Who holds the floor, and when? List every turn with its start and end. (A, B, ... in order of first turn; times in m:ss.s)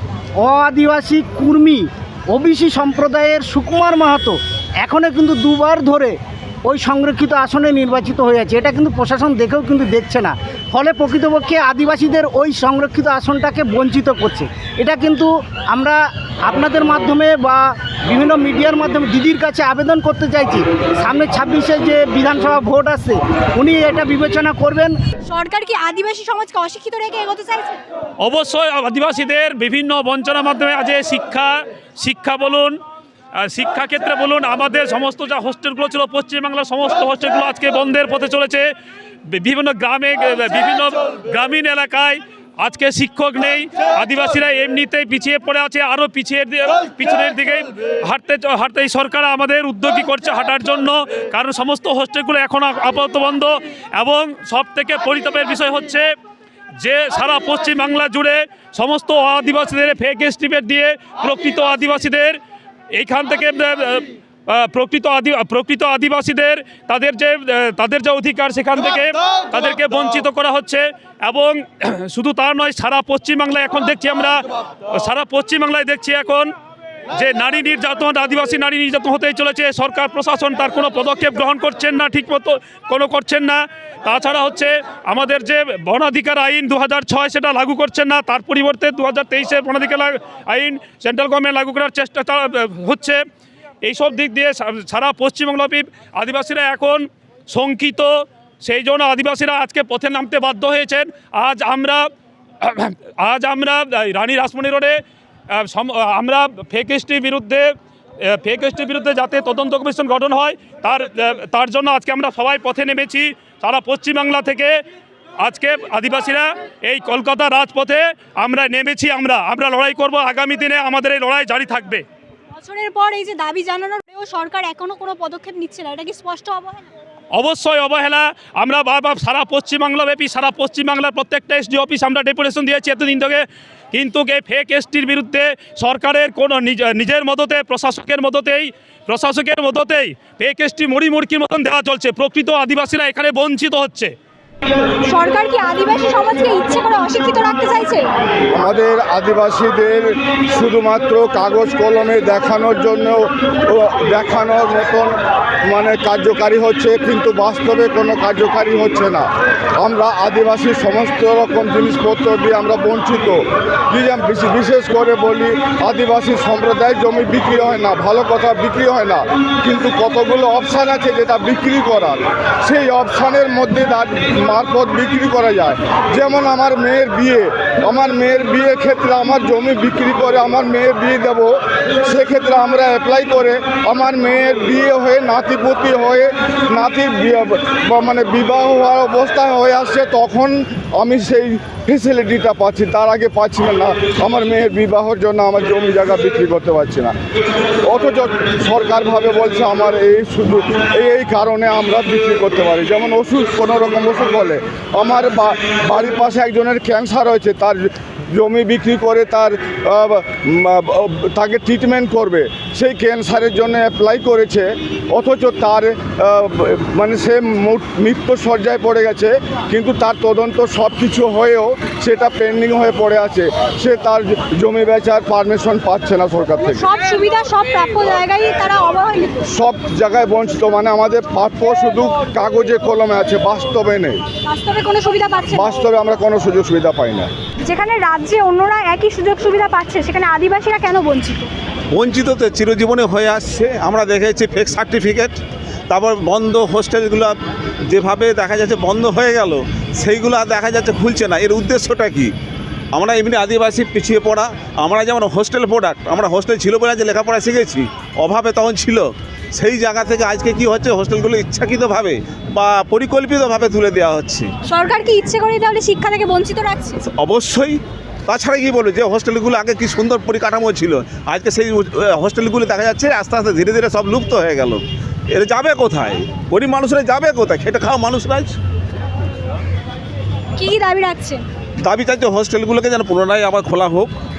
0:00.4-0:24.9 A
0:25.2-0:27.8 B
0:28.2-0:32.8 C
0:33.4-0:38.6 C
0:39.3-0:56.0 C
0:56.8-1:02.4 C
1:03.0-1:16.5 C
1:17.1-1:33.2 C
1:33.8-1:42.1 C
1:42.6-1:45.0 C
1:45.5-1:47.7 C
1:48.2-1:54.8 C
1:55.4-2:02.0 C
2:02.6-2:06.9 B
2:07.3-2:24.1 C
2:25.1-2:28.0 B
2:28.5-2:35.1 D
2:35.7-2:39.2 D
2:39.8-2:43.4 D
2:43.9-3:17.1 D
3:17.8-3:46.9 D
3:46.6-3:49.5 B
3:49.5-3:54.2 D
3:54.4-3:55.8 B
3:55.5-3:57.3 D
3:57.7-4:01.5 B
4:01.9-4:05.4 E
4:05.9-4:07.3 E
4:07.9-4:12.3 E
4:12.9-4:24.5 E
4:24.7-4:27.0 B
4:27.1-4:38.6 E
4:40.6-4:41.4 B
4:41.8-4:44.1 E